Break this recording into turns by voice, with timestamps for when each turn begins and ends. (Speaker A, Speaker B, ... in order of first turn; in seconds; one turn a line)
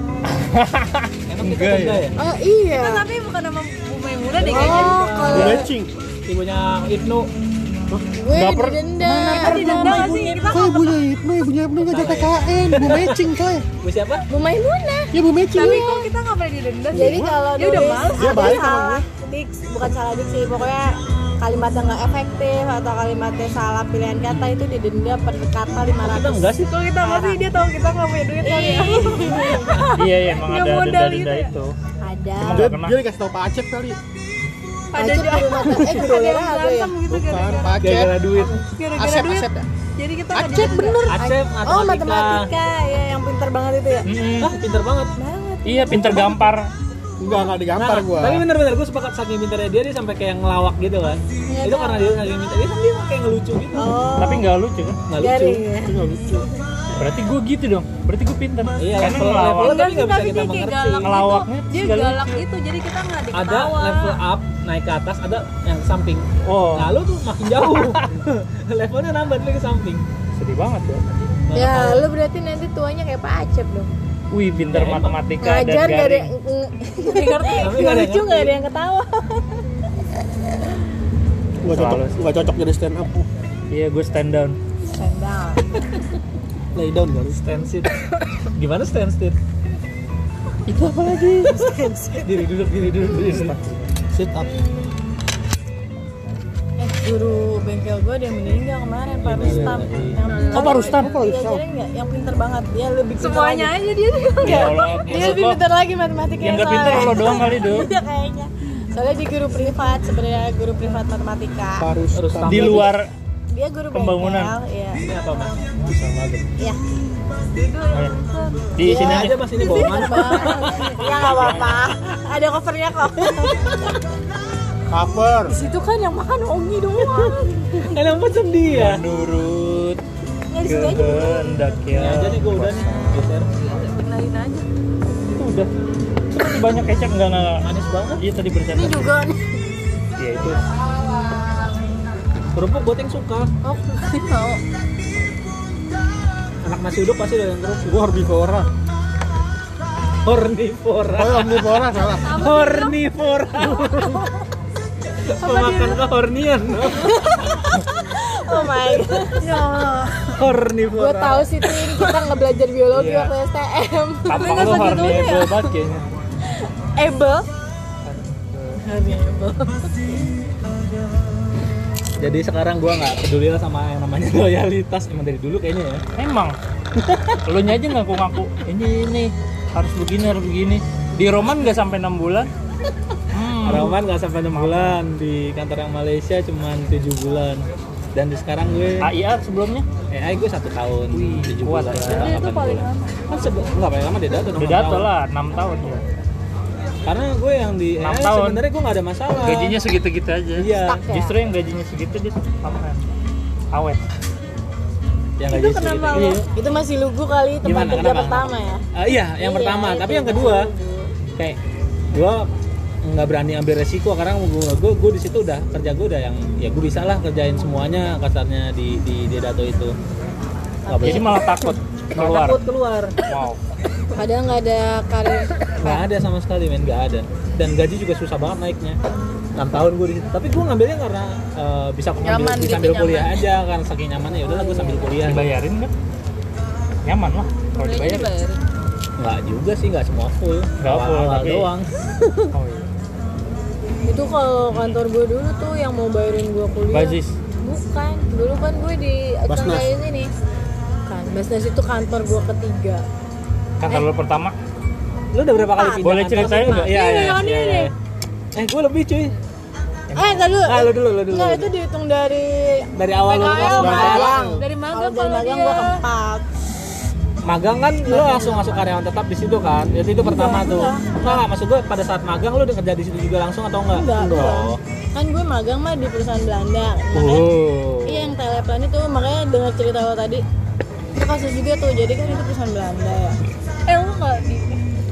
Speaker A: 0.5-2.0
Speaker B: 1.3-2.2
Speaker C: 2.1-3.0
Speaker D: 2.7-5.6
Speaker B: 4.4-5.6
Speaker C: 4.5-5.7
Speaker E: 4.5-5.9
Speaker B: 6.2-7.3
Speaker C: 8.1-10.5
Speaker A: 8.3-10.3
Speaker D: 9.2-11.0
Speaker E: 9.8-13.7
Speaker B: 11.8-13.2
Speaker B: 13.8-14.2
Speaker C: 14.3-15.1
Speaker E: 15.1-16.1
Speaker D: 15.5-18.5
Speaker E: 16.9-17.3
Speaker C: 16.9-27.4
Speaker E: 18.1-19.1
Speaker B: 26.0-26.8
Speaker D: 26.6-31.5
Speaker C: 28.4-29.8
Speaker B: 29.0-29.9
Speaker A: 29.9-31.7
Speaker C: 32.0-32.7
Speaker A: 32.4-33.0
Speaker E: 32.4-34.0
Speaker D: 34.9-41.1
Speaker C: 35.0-36.9
Speaker E: 37.1-38.2
Speaker B: 37.8-38.6
Speaker E: 38.9-39.7
Speaker E: 40.3-40.9
Speaker C: 40.5-44.1
Speaker B: 41.1-42.5
Speaker A: 44.1-44.5
Speaker B: 44.4-45.1
Speaker C: 45.2-46.5
Speaker A: 45.6-46.7
Speaker E: 47.2-48.5
Speaker B: 47.8-54.1
Speaker D: 51.6-52.0
Speaker C: 53.7-54.5
Speaker A: 54.2-55.0
Speaker B: 55.1-55.6
Speaker C: 55.2-56.0
Speaker E: 55.8-56.5
Speaker A: 57.0-59.8
Speaker B: 58.8-61.2
Speaker D: 59.5-64.2
Speaker A: 61.0-62.4
Speaker B: 63.3-70.0
Speaker A: 66.4-66.9
Speaker A: 70.3-71.3
Speaker B: 71.4-72.0
Speaker C: 71.5-73.9
Speaker A: 74.3-76.3
Speaker B: 74.7-75.2
Speaker C: 75.4-79.6
Speaker D: 77.0-77.8
Speaker B: 77.6-78.5
Speaker E: 81.6-83.3
Speaker A: 81.7-82.2
Speaker A: 83.7-84.6
Speaker C: 84.9-85.7
Speaker E: 86.7-87.4
Speaker B: 87.3-89.4
Speaker A: 90.7-91.6
Speaker C: 91.4-92.4
Speaker B: 92.2-93.5
Speaker E: 93.3-93.9
Speaker B: 94.1-94.5
Speaker C: 96.8-103.7
Speaker B: 99.2-100.2
Speaker D: 100.2-101.1
Speaker A: 100.5-101.1
Speaker E: 100.6-101.6
Speaker D: 103.2-105.4
Speaker A: 104.4-105.6
Speaker C: 104.4-111.9
Speaker A: 106.4-107.9
Speaker E: 111.8-112.9
Speaker B: 112.1-112.9
Speaker A: 112.5-113.1
Speaker C: 113.5-115.0
Speaker A: 113.9-114.5
Speaker B: 115.0-116.4
Speaker D: 117.5-118.8
Speaker A: 118.7-119.4
Speaker C: 118.8-124.0
Speaker B: 118.9-121.3
Speaker D: 119.7-120.8
Speaker A: 121.3-121.7
Speaker E: 124.9-125.5
Speaker C: 125.5-127.7
Speaker D: 127.0-127.5
Speaker B: 127.8-129.0
Speaker A: 128.7-130.0
Speaker C: 130.5-131.6
Speaker A: 130.6-132.9
Speaker B: 131.9-133.5
Speaker D: 133.7-134.6
Speaker A: 135.2-135.7
Speaker A: 136.3-139.0
Speaker B: 137.6-138.2
Speaker C: 138.7-139.6
Speaker A: 140.2-140.6
Speaker B: 142.5-143.5
Speaker C: 143.6-144.6
Speaker B: 146.6-148.1
Speaker E: 147.8-148.7
Speaker B: 150.2-154.1
Speaker E: 151.1-152.4
Speaker D: 152.1-153.0
Speaker B: 155.2-157.7
Speaker D: 155.4-156.0
Speaker C: 157.0-159.5
Speaker D: 159.4-160.3
Speaker B: 160.3-161.7
Speaker C: 160.9-165.2
Speaker A: 162.9-163.3
Speaker A: 164.3-166.1
Speaker D: 164.3-165.8
Speaker C: 167.0-167.4
Speaker A: 168.0-168.8
Speaker C: 168.8-169.9
Speaker B: 172.2-176.0
Speaker A: 176.2-176.6
Speaker A: 177.4-182.5
Speaker A: 183.3-184.0
Speaker B: 183.6-189.1
Speaker A: 184.5-185.0
Speaker A: 189.0-189.8
Speaker B: 190.1-192.4
Speaker A: 191.1-192.9
Speaker D: 192.0-193.2
Speaker B: 193.3-195.1
Speaker A: 194.5-196.0
Speaker B: 197.0-199.8
Speaker A: 198.0-198.6
Speaker A: 199.3-203.0
Speaker B: 200.6-201.0
Speaker C: 200.8-201.3
Speaker A: 203.7-204.0
Speaker B: 205.4-206.4
Speaker D: 205.5-206.4
Speaker A: 206.1-206.4
Speaker C: 206.5-208.8
Speaker B: 207.6-210.7
Speaker C: 209.4-211.1
Speaker B: 212.1-212.5
Speaker B: 213.0-219.9
Speaker B: 220.9-221.3
Speaker C: 220.9-221.7
Speaker A: 221.0-222.6
Speaker B: 222.2-223.2
Speaker A: 223.2-223.6
Speaker C: 224.1-226.1
Speaker B: 225.8-229.0
Speaker B: 229.5-235.5
Speaker D: 232.2-233.5
Speaker C: 234.4-235.1
Speaker A: 235.2-235.9
Speaker A: 237.0-238.3
Speaker D: 237.7-238.6
Speaker B: 239.2-242.5
Speaker A: 240.8-241.7
Speaker A: 242.5-242.9
Speaker C: 244.1-250.3
Speaker A: 246.9-247.3
Speaker E: 249.5-249.9
Speaker C: 251.1-253.0
Speaker A: 253.8-254.5
Speaker B: 255.3-257.9
Speaker C: 255.5-256.9
Speaker A: 256.0-256.9
Speaker D: 256.8-257.9
Speaker B: 258.5-259.3
Speaker A: 260.1-260.4
Speaker C: 260.1-262.9
Speaker B: 260.6-261.7
Speaker B: 262.9-264.4
Speaker D: 263.2-266.0
Speaker C: 263.4-266.4
Speaker E: 263.7-264.7
Speaker B: 267.4-274.8
Speaker C: 268.1-268.8
Speaker C: 270.2-271.4
Speaker C: 273.9-280.4
Speaker E: 274.2-274.5
Speaker B: 277.1-278.3
Speaker C: 281.1-283.4
Speaker D: 283.9-284.9